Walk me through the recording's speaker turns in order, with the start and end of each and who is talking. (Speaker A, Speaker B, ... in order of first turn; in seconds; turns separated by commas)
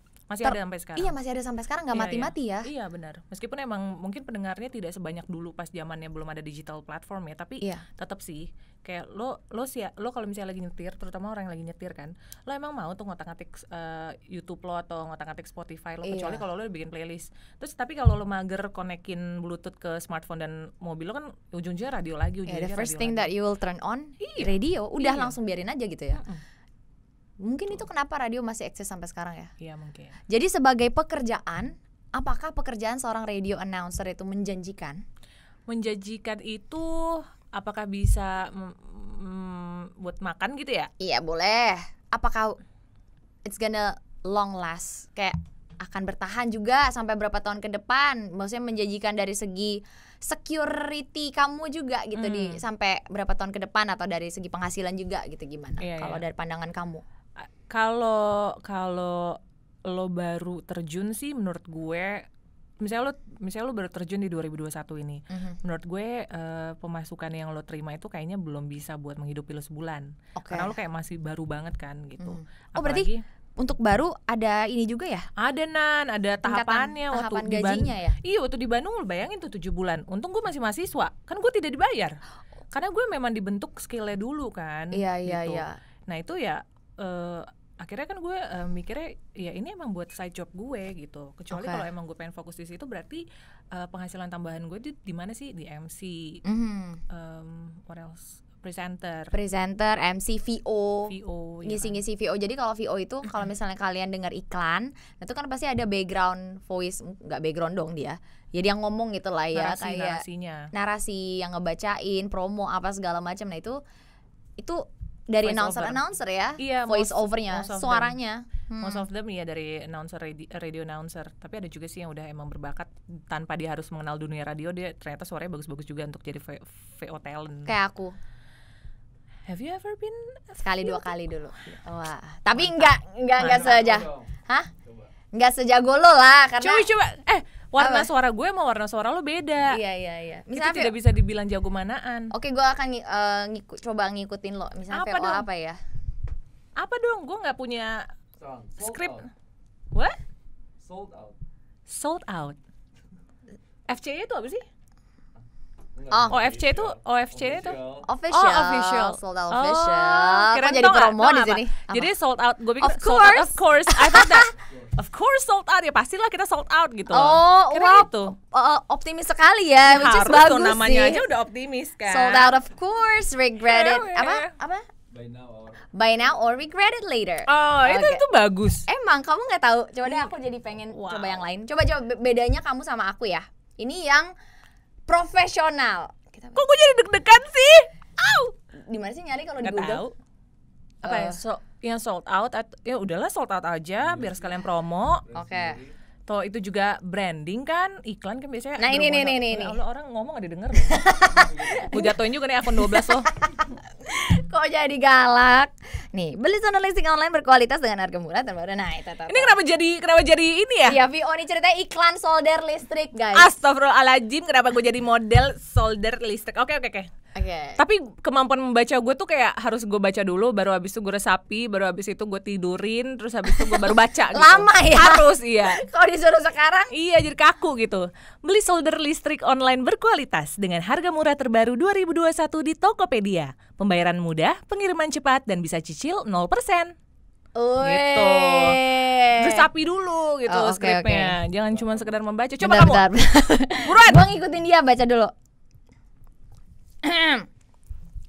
Speaker A: 0.3-1.1, Speaker B: 0.4-2.7, Speaker A: 1.9-23.3, Speaker B: 16.0-16.4, Speaker B: 22.5-26.2, Speaker A: 24.2-25.3, Speaker A: 26.1-26.4, Speaker B: 27.4-29.5, Speaker A: 29.6-30.2, Speaker B: 30.3-35.0, Speaker A: 35.7-40.9, Speaker B: 41.0-42.6, Speaker B: 43.5-57.0, Speaker A: 52.2-52.6, Speaker A: 55.8-56.2, Speaker A: 57.7-62.3, Speaker A: 62.8-73.2, Speaker B: 65.3-65.6, Speaker B: 70.4-70.8, Speaker B: 72.2-75.3, Speaker A: 75.4-82.2, Speaker B: 76.4-78.2, Speaker A: 82.7-96.4, Speaker B: 84.9-85.8, Speaker B: 91.5-91.9, Speaker B: 96.4-97.0, Speaker A: 97.1-99.3, Speaker B: 99.3-113.8, Speaker A: 101.1-102.0, Speaker A: 109.5-110.7, Speaker B: 114.6-119.1, Speaker A: 115.4-116.0, Speaker A: 116.6-118.2, Speaker A: 118.8-127.7, Speaker B: 127.7-128.2, Speaker A: 129.5-131.1, Speaker B: 130.6-134.7, Speaker A: 132.6-133.9, Speaker C: 133.4-134.3, Speaker B: 135.3-136.9, Speaker A: 136.6-139.8, Speaker B: 137.8-138.1, Speaker B: 139.7-140.9, Speaker A: 140.5-142.3, Speaker B: 142.3-145.8, Speaker A: 144.9-145.4, Speaker A: 146.8-148.1, Speaker C: 148.4-149.3, Speaker A: 148.8-149.3, Speaker A: 149.9-150.2, Speaker C: 150.8-151.4, Speaker A: 151.9-152.6, Speaker A: 153.9-154.7, Speaker C: 155.9-158.1, Speaker B: 156.1-156.4, Speaker A: 156.3-157.8, Speaker B: 158.0-162.1, Speaker A: 158.3-168.4, Speaker B: 162.8-164.5, Speaker C: 164.6-165.0, Speaker B: 167.1-171.2, Speaker A: 169.8-172.6, Speaker B: 172.1-174.9, Speaker A: 173.7-174.5, Speaker C: 175.1-175.9, Speaker B: 175.9-178.2, Speaker A: 177.5-178.9, Speaker B: 178.9-184.3, Speaker A: 180.1-180.3, Speaker A: 180.9-181.4, Speaker B: 185.1-186.6, Speaker A: 186.6-187.9, Speaker B: 188.2-190.1, Speaker A: 189.6-190.1, Speaker A: 191.0-195.2, Speaker B: 191.0-191.4, Speaker C: 194.0-194.7, Speaker C: 195.2-195.9, Speaker B: 195.3-195.8, Speaker A: 196.3-201.1, Speaker B: 198.8-199.8, Speaker B: 200.8-209.6, Speaker C: 201.3-201.9, Speaker A: 201.9-203.3, Speaker A: 209.3-211.0, Speaker B: 210.8-213.5, Speaker A: 213.3-217.1, Speaker B: 217.3-217.8, Speaker A: 217.8-225.8, Speaker B: 223.5-226.9, Speaker A: 226.9-236.9, Speaker B: 237.6-239.7, Speaker A: 237.8-243.1, Speaker B: 240.5-241.4, Speaker C: 241.7-242.2, Speaker B: 242.6-245.3, Speaker A: 243.8-244.3, Speaker B: 247.0-247.5